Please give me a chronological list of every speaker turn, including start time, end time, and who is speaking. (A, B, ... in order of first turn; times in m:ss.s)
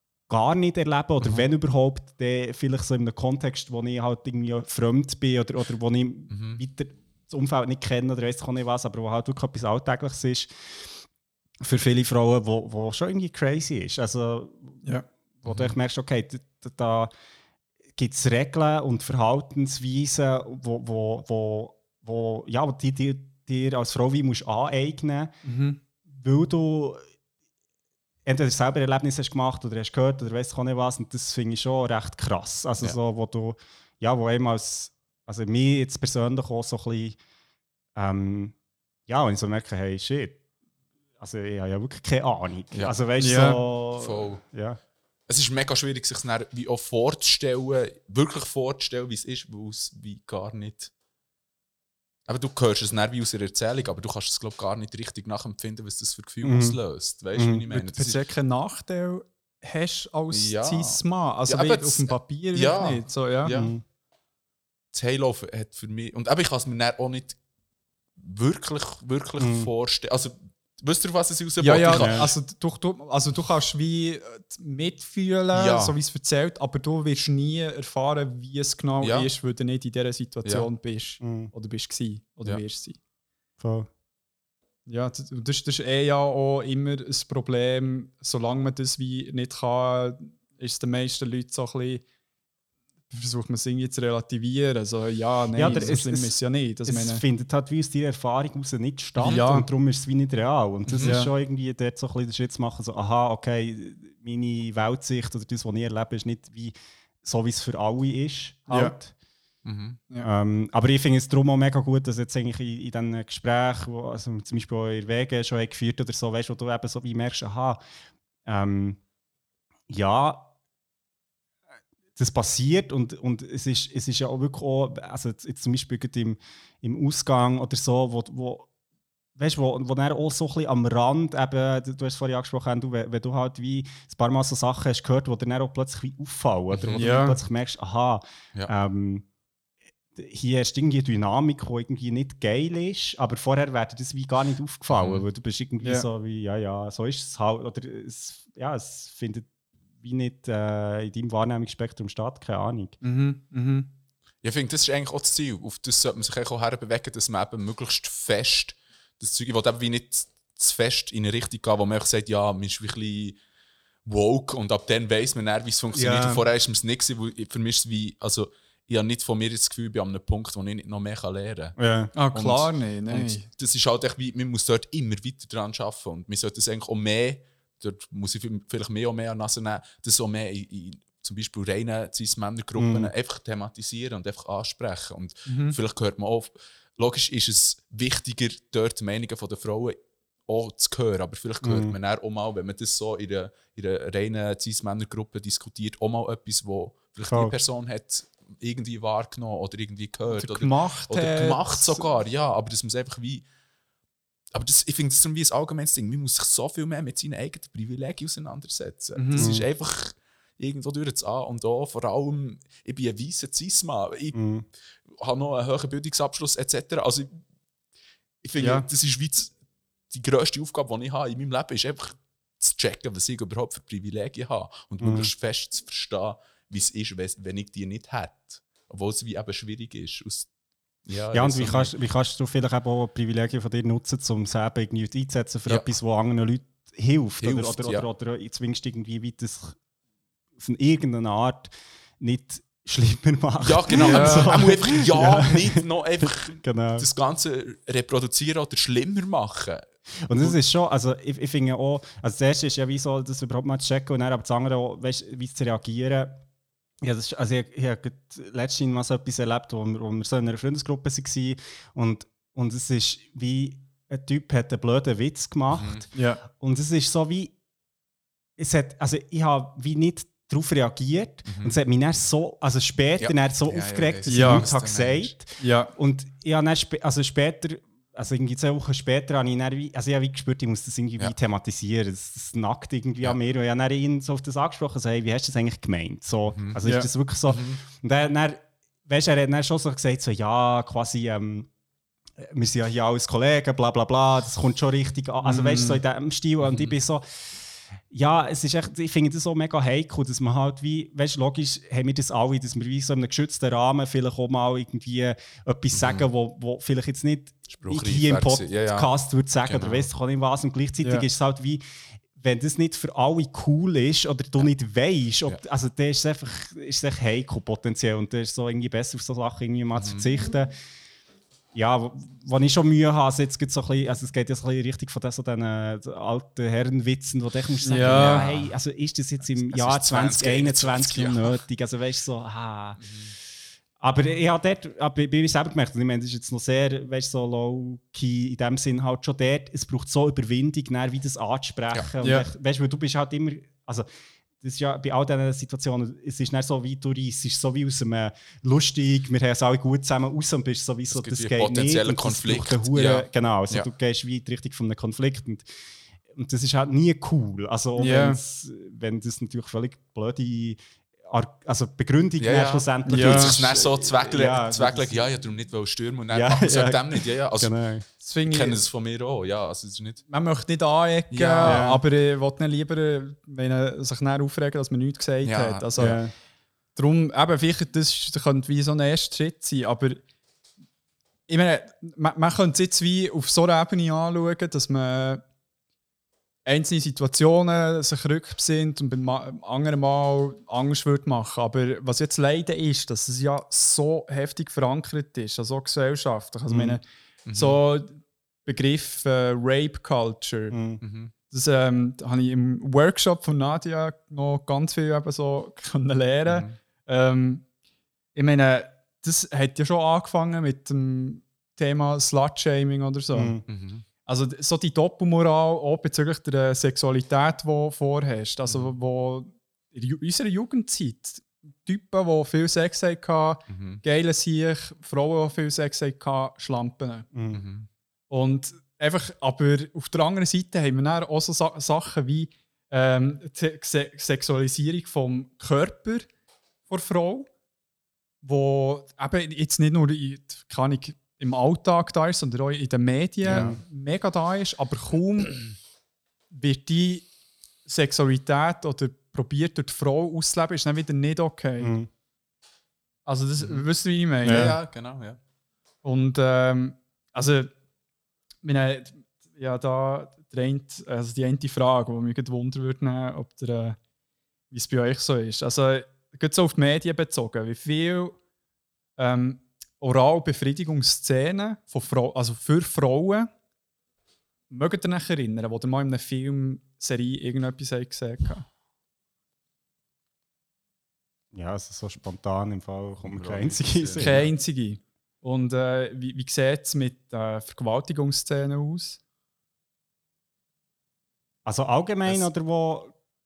0:00.3-0:10.5 A
0:06.3-0:06.6 B
0:11.6-0:14.8 A
0:15.4-0:17.1 A
0:15.4-0:15.7 B
0:18.0-0:25.3 A
0:25.4-0:25.8 C
0:26.1-0:27.0 A
0:28.2-0:37.2 A
0:38.0-0:38.5 A
0:39.1-0:40.4 A
0:41.2-0:44.8 A
0:43.2-0:43.6 C
0:44.0-0:44.4 B
0:45.3-0:50.9 B
0:52.3-0:58.2 B
0:56.4-0:56.8 A
0:57.3-0:57.6 A
0:57.7-1:03.5 C
1:00.3-1:03.7 B
1:03.5-1:03.8 A
1:04.9-1:07.4 B
1:08.2-1:12.3 B
1:09.4-1:09.7 A
1:11.6-1:23.0 C
1:11.9-1:12.3 A
1:15.5-1:16.0 B
1:19.0-1:19.3 B
1:21.2-1:21.5 A
1:23.6-1:23.9 A
1:24.8-1:32.0 C
1:33.1-1:37.2 C
1:35.6-1:49.1 A
1:39.2-1:39.7 C
1:40.9-1:41.2 B
1:41.0-1:41.3 C
1:48.7-1:49.0 C
1:49.6-1:50.0 B
1:50.2-1:57.8 A
1:58.4-1:59.0 A
1:59.9-2:00.5 A
2:02.2-2:08.7 A
2:09.4-2:19.2 A
2:16.7-2:17.0 B
2:17.0-2:17.4 C
2:20.2-2:29.5 A
2:24.9-2:25.2 B
2:30.0-2:33.0 A
2:33.0-2:33.9 C
2:34.4-2:43.4 B
2:44.0-2:51.8 B
2:45.9-2:46.4 A
2:51.8-2:52.1 A
2:52.2-2:53.5 C
2:52.3-3:23.4 B
3:02.8-3:03.1 A
3:05.4-3:05.7 C
3:11.6-3:11.9 A
3:17.2-3:17.6 A
3:20.4-3:22.1 C
3:24.5-3:34.4 B
3:29.2-3:29.5 C
3:29.4-3:29.6 A
3:34.3-3:34.6 A
3:35.1-3:37.4 B
3:38.4-3:39.5 B
3:38.6-3:38.8 C
3:40.1-3:50.5 B
3:45.0-3:45.3 A
3:51.1-3:51.9 B
3:51.3-3:59.8 A
3:55.7-3:55.9 B
3:57.4-3:58.0 B
4:00.6-4:07.1 A
4:03.6-4:10.5 B
4:04.0-4:04.5 C
4:10.2-4:16.4 A
4:17.0-4:27.5 A
4:25.8-4:26.0 B
4:26.1-4:26.4 C
4:28.6-4:51.7 A
4:31.5-4:31.8 B
4:33.2-4:35.3 B
4:34.3-4:34.6 C
4:35.6-4:35.9 C
4:46.5-4:46.8 B
4:47.5-4:47.8 B
4:52.4-4:57.2 A
4:55.4-4:56.0 C
4:56.6-4:57.0 B
4:58.1-5:11.8 A
5:05.9-5:06.2 B
5:07.7-5:09.1 B
5:09.6-5:10.1 B
5:12.4-5:20.7 A
5:20.0-5:20.3 B
5:21.7-5:33.0 A
5:27.8-5:28.5 C
5:27.9-5:28.7 B
5:29.6-5:31.6 B
5:33.0-5:33.3 B
5:34.0-5:44.1 A
5:42.2-5:42.4 C
5:44.6-5:55.6 A
5:51.1-5:53.9 B
5:56.3-6:05.3 A
5:58.0-5:58.4 C
6:02.4-6:07.8 B
6:03.0-6:03.5 C
6:06.3-6:08.0 A
6:08.2-6:08.8 C
6:08.4-6:10.2 B
6:10.3-6:16.2 C
6:11.3-6:11.8 B
6:11.6-6:12.0 A
6:15.4-6:16.2 B
6:16.0-6:16.3 A
6:17.0-6:20.2 C
6:21.5-6:25.4 C
6:26.6-6:40.8 C
6:36.7-6:37.0 A
6:37.4-6:37.8 B
6:40.7-6:41.0 A
6:41.0-6:41.3 B
6:41.5-6:47.6 C
6:46.4-6:46.8 B
6:48.3-6:53.6 C
6:53.3-6:53.6 A
6:53.7-6:54.0 B
6:54.2-7:07.3 C
6:58.7-6:58.9 B
7:03.7-7:04.0 B
7:07.3-7:07.6 A
7:07.5-7:07.9 B
7:08.3-7:16.3 C
7:16.9-7:17.5 C
7:18.4-7:25.8 C
7:23.4-7:23.8 A
7:26.5-7:27.2 C
7:27.8-7:31.9 C
7:31.8-7:32.1 A
7:33.2-7:34.7 C
7:34.4-7:34.7 A
7:34.4-7:35.4 B
7:36.0-7:37.7 C
7:38.6-7:44.0 C
7:44.7-7:48.4 C
7:49.2-7:53.5 C
7:54.7-7:58.6 C
8:01.5-8:04.4 A
8:03.2-8:04.5 B
8:04.2-8:09.2 C
8:11.6-8:13.1 A